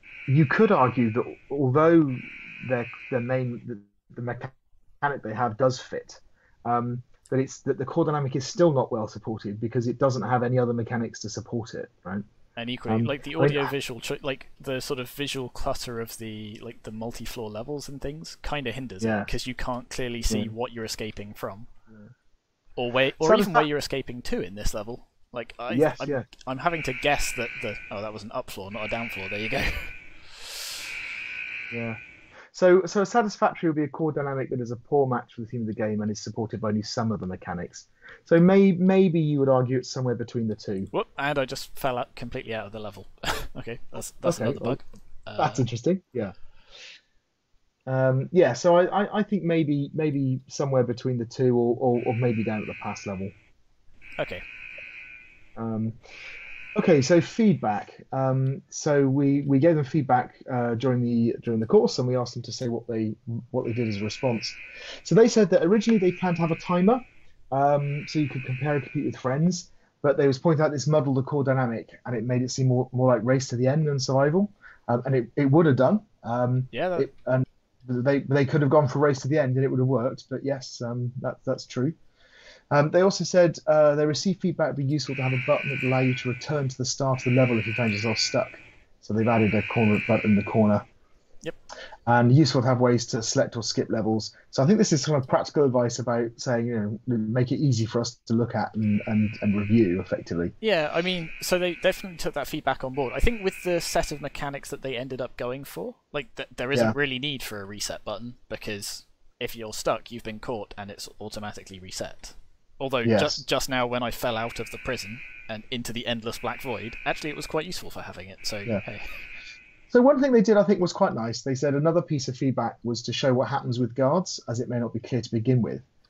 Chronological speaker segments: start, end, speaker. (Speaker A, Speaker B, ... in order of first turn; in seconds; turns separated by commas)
Speaker A: 0.3-12.2, Speaker B: 12.6-21.7, Speaker A: 12.9-13.7, Speaker A: 19.0-19.3, Speaker B: 22.8-30.9, Speaker A: 23.2-23.7, Speaker A: 25.7-26.3, Speaker A: 31.7-32.0, Speaker A: 32.5-40.9, Speaker B: 40.9-45.7, Speaker A: 44.2-44.8, Speaker A: 45.4-46.3, Speaker A: 47.9-53.3, Speaker B: 54.2-54.4, Speaker A: 55.5-56.0, Speaker A: 56.7-82.0, Speaker B: 76.7-77.1, Speaker A: 82.7-90.9, Speaker A: 92.1-100.5, Speaker B: 100.6-119.2, Speaker A: 113.0-113.4, Speaker A: 119.9-125.8